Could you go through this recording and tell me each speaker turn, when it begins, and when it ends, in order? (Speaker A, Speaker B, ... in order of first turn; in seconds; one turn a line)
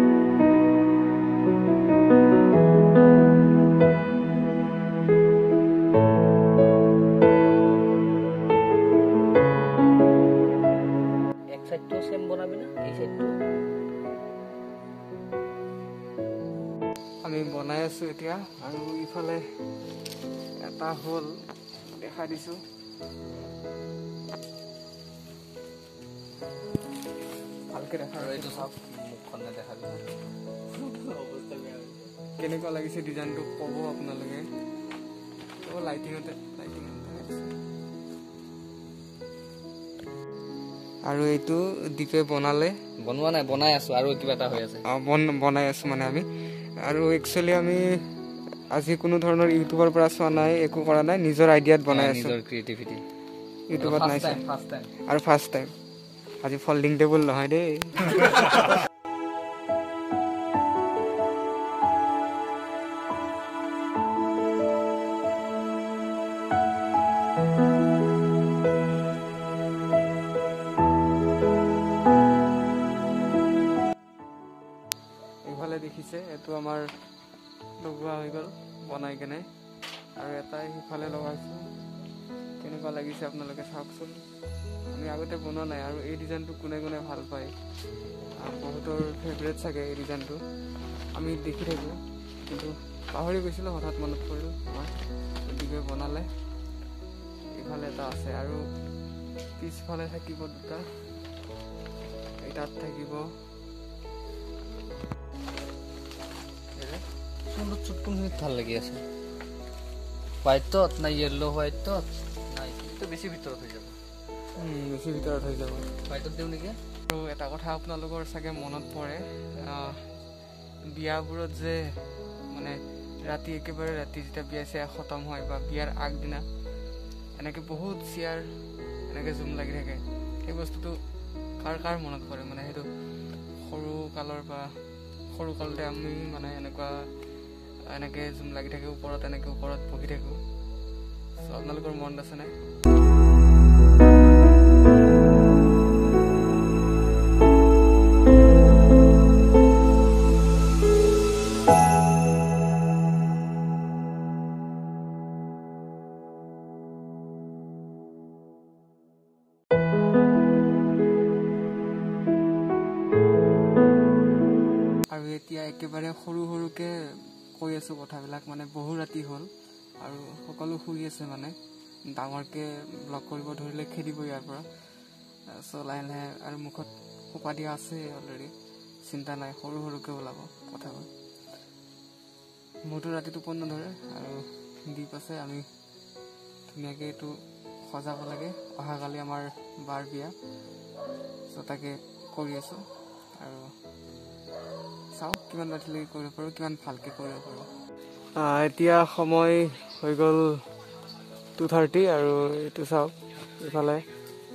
Speaker A: 11.5-13.4
Speaker B: 17.2-19.4
Speaker B: 20.6-21.3
Speaker B: 21.9-22.6
Speaker B: 27.7-28.7
Speaker A: 28.1-30.1
Speaker A: 30.7-32.1
Speaker B: 32.4-34.5
Speaker B: 35.6-37.5
Speaker B: 41.1-42.7
Speaker A: 43.0-44.8
Speaker B: 44.9-46.2
Speaker B: 46.8-47.8
Speaker B: 48.7-52.4
Speaker A: 51.9-53.0
Speaker B: 53.7-54.4
Speaker A: 53.8-54.9
Speaker B: 55.0-55.7
Speaker B: 56.4-58.7
Speaker B: 75.5-76.9
Speaker B: 77.8-79.5
Speaker B: 80.2-81.6
Speaker B: 82.6-84.2
Speaker B: 84.9-87.5
Speaker B: 88.4-90.4
Speaker B: 91.2-94.9
Speaker B: 95.5-96.3
Speaker B: 97.6-98.6
Speaker B: 99.6-100.8
Speaker B: 102.4-103.3
Speaker A: 106.8-109.0
Speaker A: 110.4-114.0
Speaker B: 114.6-115.9
Speaker A: 116.1-116.8
Speaker B: 117.1-120.0
Speaker B: 120.9-121.8
Speaker B: 122.5-126.4
Speaker B: 127.4-128.5
Speaker B: 129.1-131.0
Speaker B: 131.6-132.9
Speaker B: 133.6-134.8
Speaker B: 135.3-137.1
Speaker B: 137.9-140.4
Speaker B: 141.4-142.5
Speaker B: 165.1-166.9
Speaker B: 167.6-169.5
Speaker B: 170.0-171.5
Speaker B: 172.1-174.7
Speaker B: 175.5-178.5
Speaker B: 179.1-181.1
Speaker B: 182.9-185.7
Speaker B: 186.7-187.3
Speaker B: 187.8-190.3
Speaker B: 191.5-192.8
Speaker B: 193.4-193.7
Speaker B: 195.2-197.7
Speaker B: 198.4-200.7
Speaker B: 201.6-204.0